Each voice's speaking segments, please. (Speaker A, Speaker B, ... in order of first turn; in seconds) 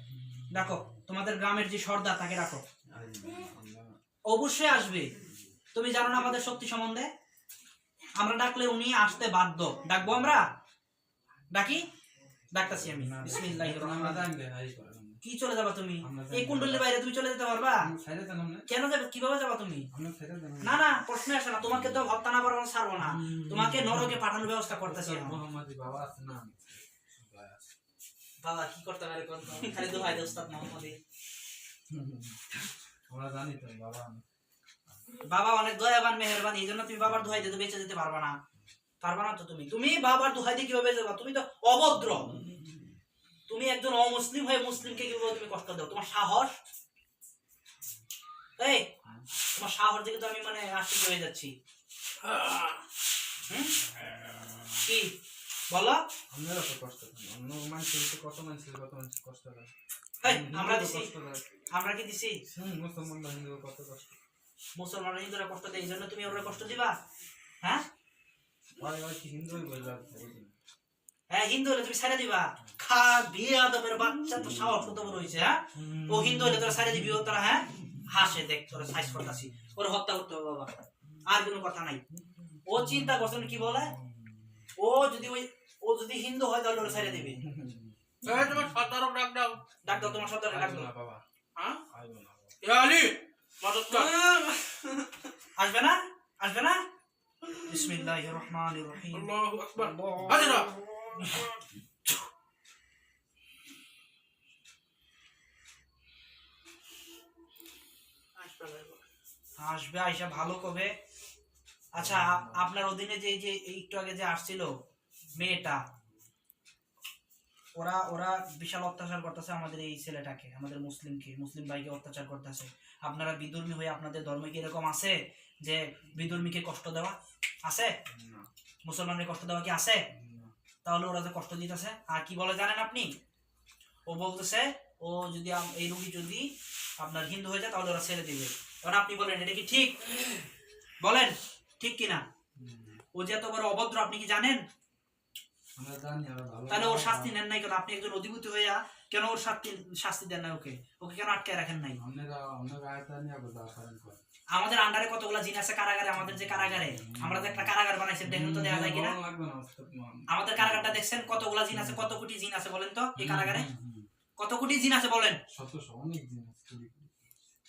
Speaker A: 0.2-0.8, 2.9-4.0, 12.8-15.2, 16.0-16.9, 17.7-18.6, 19.9-20.8, 23.0-27.7, 29.4-30.3, 31.9-32.5, 33.1-34.2, 42.1-42.9, 54.0-54.7, 56.3-61.5, 62.5-64.2, 68.8-70.5, 75.8-77.0, 82.3-82.9, 83.8-84.6, 86.8-88.5, 89.8-91.2, 91.9-92.5, 93.9-95.2, 111.9-112.7, 128.1-128.5, 130.1-130.5, 142.6-143.0, 145.8-147.3, 152.0-154.2, 156.2-162.1, 163.2-164.1, 165.5-167.1
Speaker B: 0.5-2.6, 4.3-5.1, 5.7-7.1, 8.2-10.5, 11.5-11.8, 12.5-14.3, 15.2-17.9, 18.7-19.9, 20.6-25.4, 28.4-31.0, 35.2-38.4, 39.0-42.3, 43.5-46.5, 48.6-48.8, 49.5-51.5, 53.5-53.8, 54.8-55.1, 55.7-56.0, 60.2-61.1, 61.7-62.4, 64.8-66.9, 71.3-80.7, 81.2-82.0, 82.7-83.9, 84.8-87.4, 89.8-90.9, 95.6-96.8, 97.6-101.5, 109.6-110.9, 111.9-114.7, 115.3-115.8, 117.8-127.9, 128.8-130.0, 130.8-133.1, 134.1-136.5, 137.0-140.1, 141.0-142.2, 143.1-144.6, 146.7-152.0, 154.5-159.2, 160.3-163.7, 164.4-165.4
Speaker C: 52.2-52.8, 88.2-89.6, 91.5-91.8, 92.6-94.1, 99.1-100.7, 108.3-109.1